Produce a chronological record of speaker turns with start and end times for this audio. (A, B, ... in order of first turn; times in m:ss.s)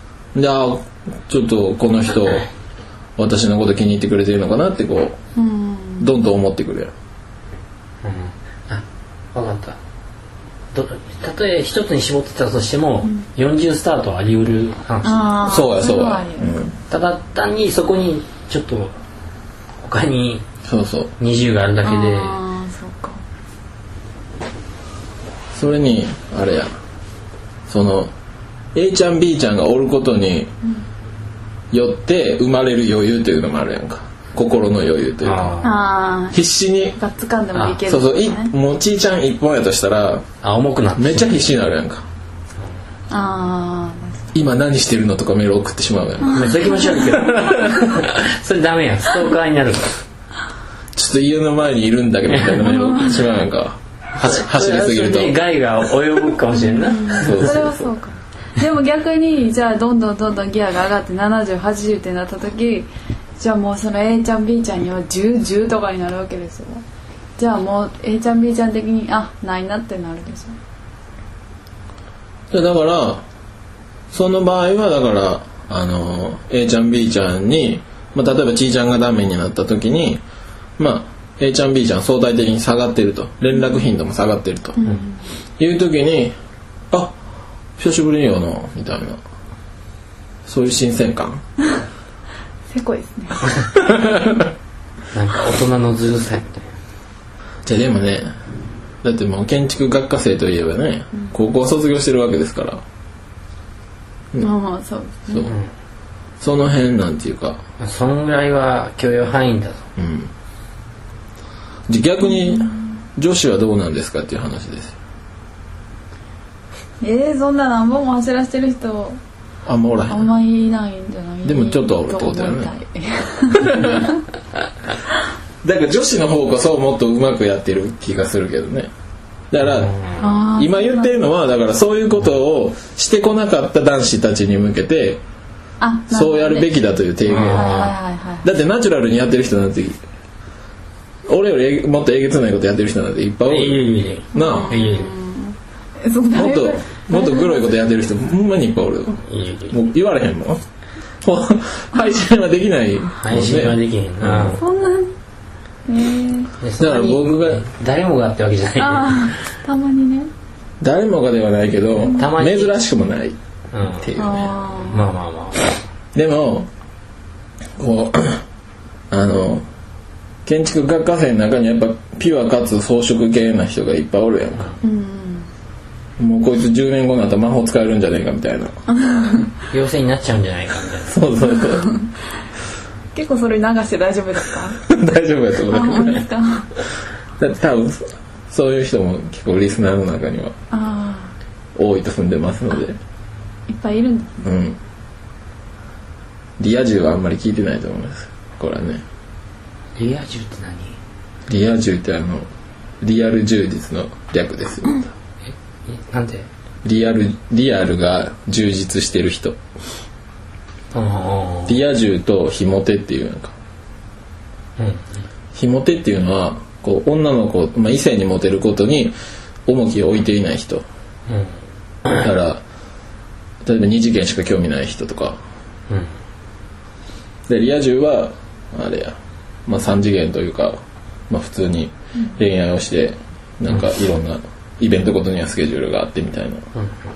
0:00.3-0:02.5 A
0:03.2-0:05.2 A
0:05.3-0:06.1 B
0:06.0-0:06.9 A
0:08.0-0:08.8 C
0:09.3-0:09.8 C
0:10.7-0:15.4 C
0:15.0-0:16.6 B
0:15.4-0:16.8 A
0:16.9-0:18.9 C
0:19.8-0:20.4 C
0:20.6-0:21.1 A
0:21.2-0:22.4 C
0:21.8-0:23.2 B
0:25.5-0:26.7 A
0:27.7-0:28.1 A
0:28.7-0:30.5 A
0:31.7-0:35.6 A
0:35.2-0:35.8 C
0:35.6-0:36.4 B
0:36.3-0:37.0 A
0:37.0-0:38.5 B
0:37.5-0:37.8 C
0:37.8-0:40.2 A
0:40.4-0:41.3 C
0:40.9-0:42.0 A
0:43.1-0:44.2 B
0:44.3-0:47.8 A
0:46.3-0:49.9 C
0:46.3-0:47.1 B
0:50.9-0:55.4 A
0:52.3-0:52.6 C
0:52.7-0:53.2 B
0:54.2-0:57.6 C
0:56.7-1:06.8 B
0:57.1-0:57.9 A
1:07.4-1:10.6 B
1:12.5-1:13.2 A
1:14.1-1:20.2 A
1:20.8-1:24.8 A
1:24.8-1:25.2 B
1:25.6-1:26.4 A
1:27.8-1:29.2 A
1:30.4-1:31.4 A
1:32.7-1:33.5 B
1:33.8-1:34.4 A
1:35.1-1:36.7 C
1:37.6-1:38.3 A
1:39.0-1:42.8 A
1:44.4-1:45.5 B
1:46.4-1:47.6 A
1:47.8-1:49.8 C
1:50.0-1:50.3 A
1:51.9-1:54.9 A
1:57.0-1:59.2 B
1:59.6-2:00.3 A
2:00.1-2:04.2 B
2:01.4-2:02.7 A
2:03.6-2:03.9 A
2:05.6-2:08.9 A
2:09.5-2:15.2 A
2:09.6-2:10.3 C
2:10.2-2:11.2 B
2:15.8-2:16.7 B
2:16.1-2:17.8 A
2:17.2-2:18.0 C
2:17.3-2:18.5 B
2:18.4-2:20.0 A
2:21.3-2:24.8 A
2:23.5-2:25.1 C
2:24.3-2:27.7 B
2:26.3-2:30.6 A
2:29.2-2:29.8 C
2:31.2-2:34.6 A
2:33.2-2:34.6 C
2:34.5-2:35.1 B
2:35.9-2:36.5 B
2:36.6-2:39.3 C
2:36.8-2:37.6 A
2:38.8-2:40.3 B
2:40.8-2:43.4 A
2:42.1-2:42.8 C
2:43.7-2:44.1 C
2:44.0-2:44.5 A
2:44.2-2:45.1 B
2:44.9-2:45.8 C
2:46.1-2:46.7 A
2:47.8-2:48.4 A
2:49.1-2:49.6 A
2:50.4-2:54.7 A
2:54.8-2:55.5 B
2:56.2-2:58.7 A
2:59.0-2:59.5 B
2:59.7-3:01.2 C
3:01.1-3:01.9 A
3:03.1-3:04.8 B
3:04.8-3:06.2 A
3:05.7-3:06.7 B
3:07.4-3:10.5 A
3:10.7-3:11.3 B
3:11.8-3:13.0 A
3:13.7-3:14.5 B
3:14.4-3:14.8 A
3:16.6-3:19.0 A
3:20.0-3:21.0 C
3:21.5-3:22.5 A
3:23.0-3:25.1 A
3:25.5-3:26.5 C
3:26.8-3:29.6 A
3:30.9-3:31.8 C
3:31.7-3:33.5 A
3:35.5-3:39.1 A
3:39.7-3:40.8 A
3:42.2-3:42.6 A
3:43.6-3:45.4 A
3:47.5-3:50.8 A
3:51.3-3:56.6 A